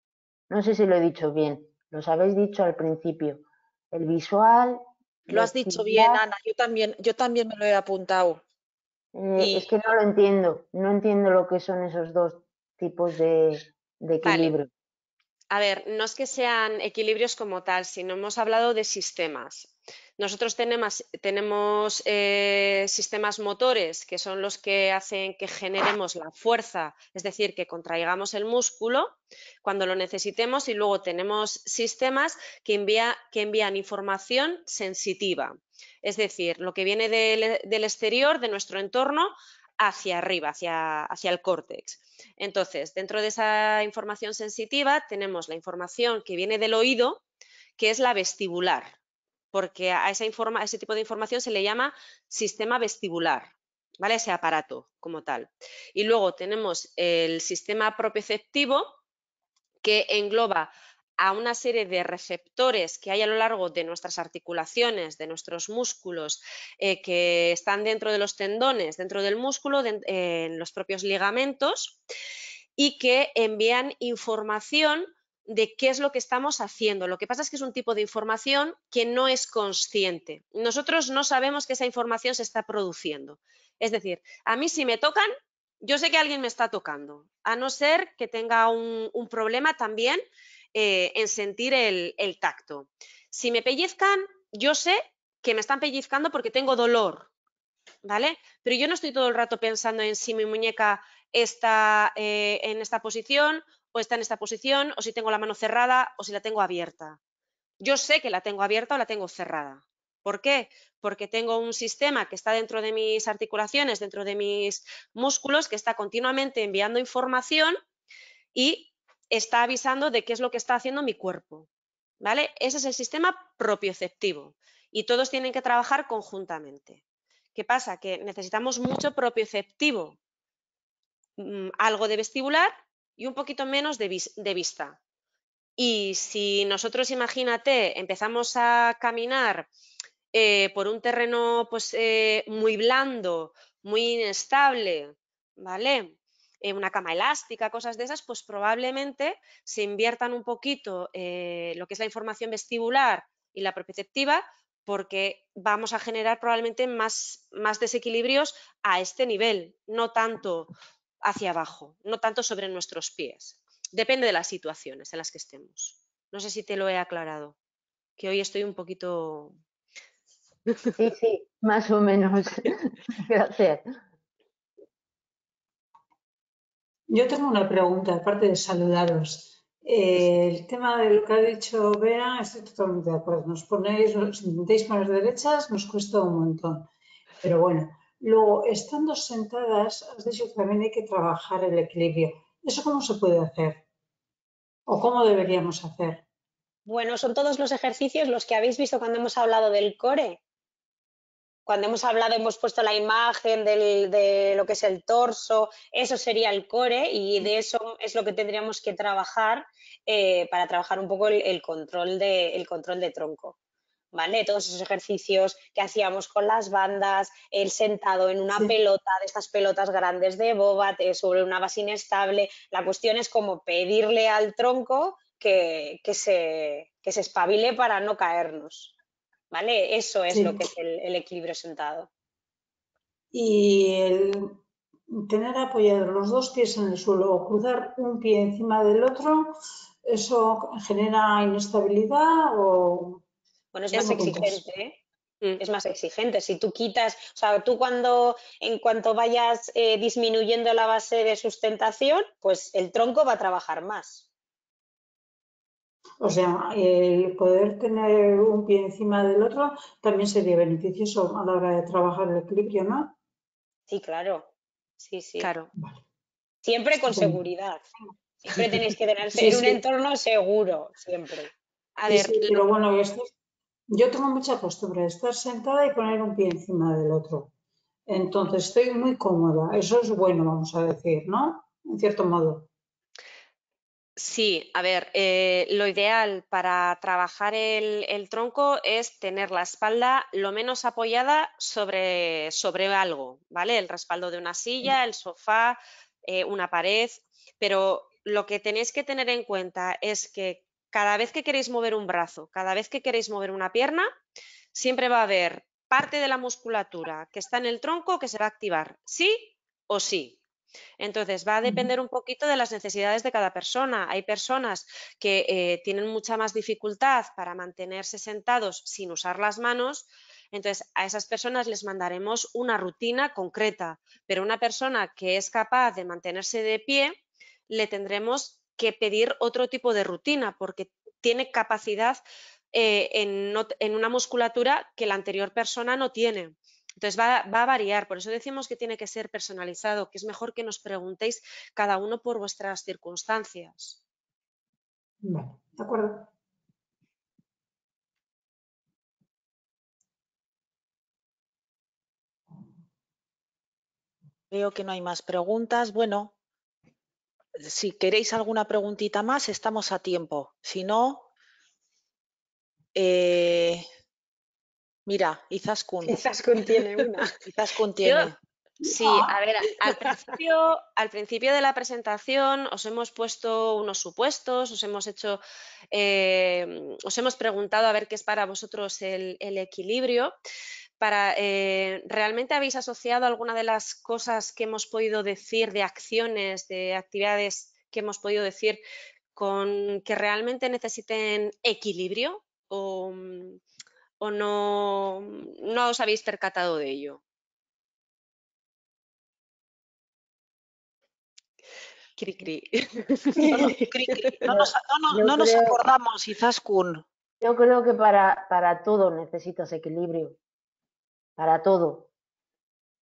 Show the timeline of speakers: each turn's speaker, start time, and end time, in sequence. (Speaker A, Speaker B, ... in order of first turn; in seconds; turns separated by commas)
Speaker A: 0.5-6.2, Speaker B: 5.3-8.4, Speaker A: 9.1-14.7, Speaker B: 9.4-9.7, Speaker C: 14.2-14.5, Speaker C: 15.5-47.2, Speaker C: 47.8-49.0, Speaker C: 49.5-59.0, Speaker C: 59.8-72.0, Speaker C: 72.8-85.3, Speaker C: 85.8-90.2, Speaker C: 90.7-97.3, Speaker C: 98.0-107.2, Speaker C: 107.8-117.8, Speaker C: 118.5-121.7, Speaker C: 122.2-127.0, Speaker C: 127.5-130.2, Speaker C: 131.4-135.0, Speaker C: 135.8-139.7, Speaker C: 140.3-167.6, Speaker C: 168.2-169.6, Speaker A: 171.0-173.9, Speaker D: 177.1-186.9, Speaker D: 187.4-193.8, Speaker D: 194.9-196.2, Speaker E: 196.8-200.4, Speaker E: 201.7-213.5, Speaker E: 214.1-228.9, Speaker E: 229.5-232.1, Speaker D: 230.3-230.7, Speaker D: 233.3-234.6, Speaker D: 235.1-243.2, Speaker E: 243.7-245.0, Speaker D: 243.9-244.6, Speaker E: 245.6-254.3, Speaker D: 256.2-263.1, Speaker E: 263.9-265.5, Speaker C: 265.4-265.7, Speaker D: 265.8-266.0, Speaker E: 266.6-267.8, Speaker D: 267.1-267.4, Speaker E: 268.4-271.5, Speaker D: 268.5-269.8, Speaker C: 272.0-272.7, Speaker D: 272.1-273.3, Speaker D: 273.9-277.5, Speaker D: 278.1-282.7, Speaker C: 284.2-304.1, Speaker C: 304.7-310.4, Speaker C: 311.0-327.2, Speaker D: 311.6-311.9, Speaker C: 327.7-332.2, Speaker C: 332.7-344.0, Speaker D: 345.2-346.3, Speaker B: 354.5-356.3, Speaker B: 357.6-361.3, Speaker B: 362.9-363.8, Speaker B: 365.1-366.2, Speaker E: 366.0-367.2, Speaker B: 367.3-368.4, Speaker C: 368.0-368.3, Speaker D: 368.9-369.1, Speaker C: 368.9-375.4, Speaker C: 375.9-380.3, Speaker C: 381.0-388.8, Speaker C: 389.4-393.6, Speaker C: 394.2-397.2, Speaker C: 402.2-404.3, Speaker B: 403.5-407.1, Speaker A: 404.5-405.8, Speaker A: 407.4-410.4, Speaker A: 411.4-412.1